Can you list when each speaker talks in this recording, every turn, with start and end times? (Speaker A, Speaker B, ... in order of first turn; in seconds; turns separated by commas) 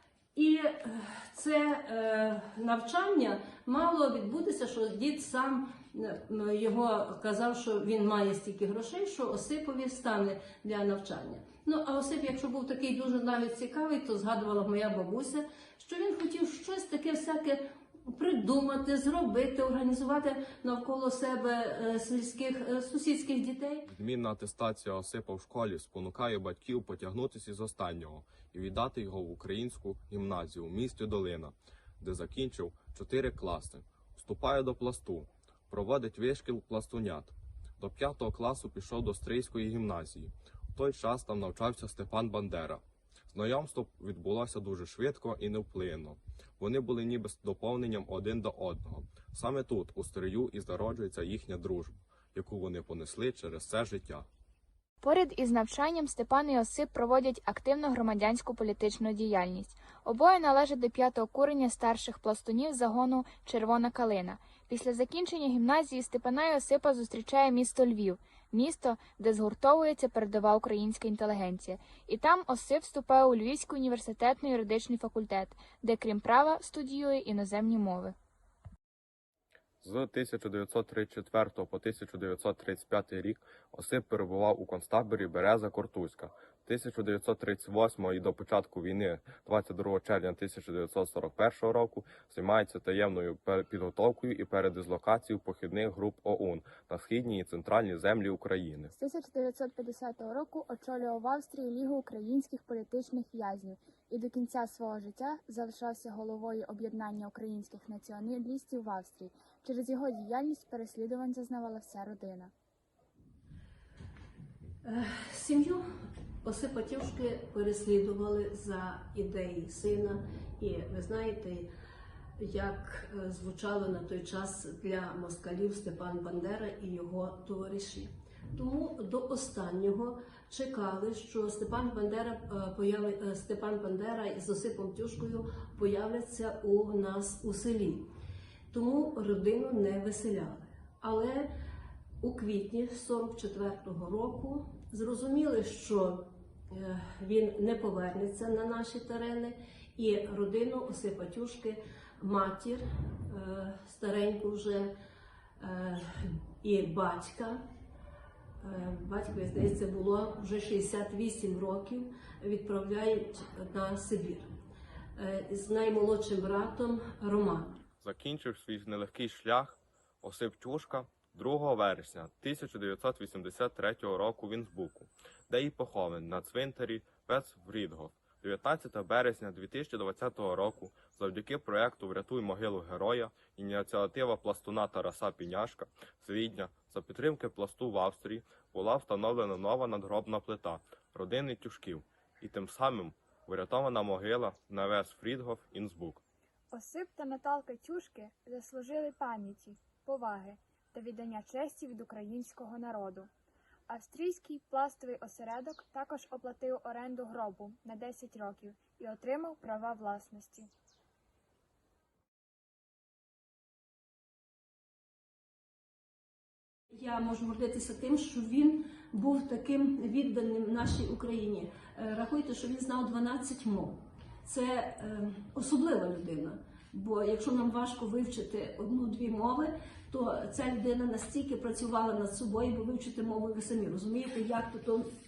Speaker A: 0.3-23.8, Speaker B: 23.9-54.3, Speaker C: 55.0-78.2, Speaker B: 79.8-98.9, Speaker C: 98.9-112.5, Speaker A: 114.8-115.8, Speaker A: 116.4-121.7, Speaker A: 122.4-138.1, Speaker A: 138.7-141.5, Speaker A: 142.2-154.9, Speaker A: 155.6-157.6, Speaker A: 158.6-164.5, Speaker A: 165.2-167.8, Speaker B: 168.0-196.2, Speaker C: 196.7-203.3, Speaker C: 203.9-210.7, Speaker A: 217.0-235.1